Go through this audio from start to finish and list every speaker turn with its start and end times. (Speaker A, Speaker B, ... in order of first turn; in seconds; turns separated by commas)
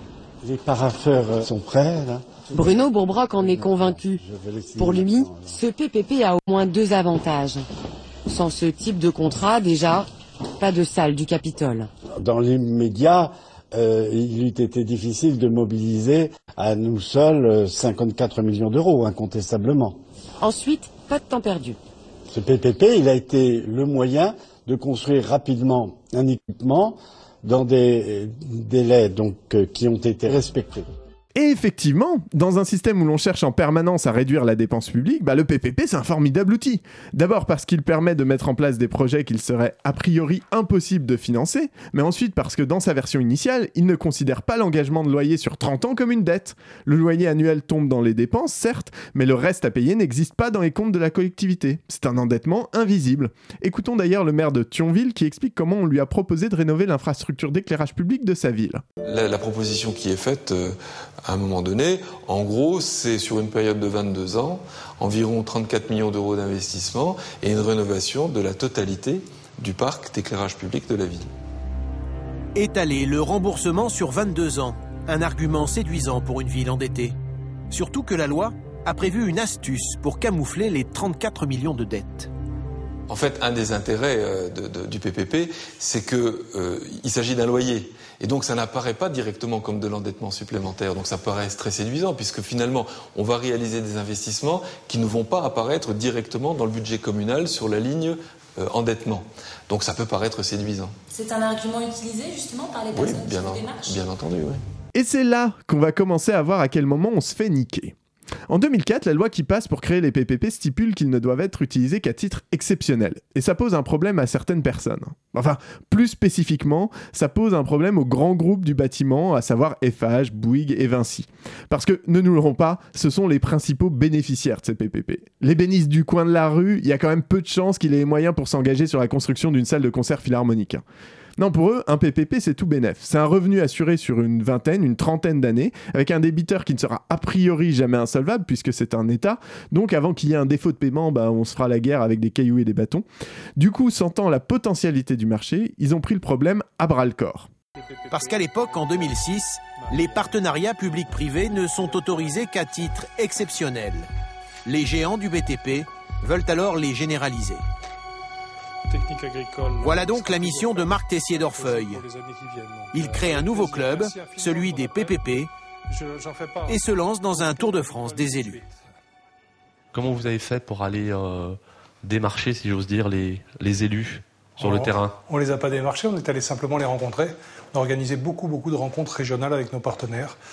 Speaker A: 0.4-2.8, Speaker B: 2.5-4.2, Speaker A: 3.3-5.6, Speaker B: 4.8-7.7, Speaker B: 8.3-11.9, Speaker A: 12.2-20.0, Speaker B: 20.4-21.8, Speaker A: 22.3-30.9, Speaker C: 31.3-58.8, Speaker D: 59.0-71.3, Speaker E: 72.5-77.2, Speaker E: 77.7-82.3, Speaker D: 83.1-101.0, Speaker F: 101.1-104.0, Speaker D: 102.9-104.6, Speaker C: 104.9-107.9, Speaker C: 108.5-130.8, Speaker C: 131.4-143.1, Speaker C: 143.6-147.5, Speaker G: 147.8-149.2, Speaker E: 148.1-154.1, Speaker G: 149.7-150.2, Speaker E: 154.7-157.6, Speaker G: 158.9-165.3, Speaker E: 159.8-162.0, Speaker E: 162.9-165.5, Speaker G: 165.9-168.8, Speaker E: 166.7-168.6, Speaker H: 169.9-175.2, Speaker G: 174.6-180.4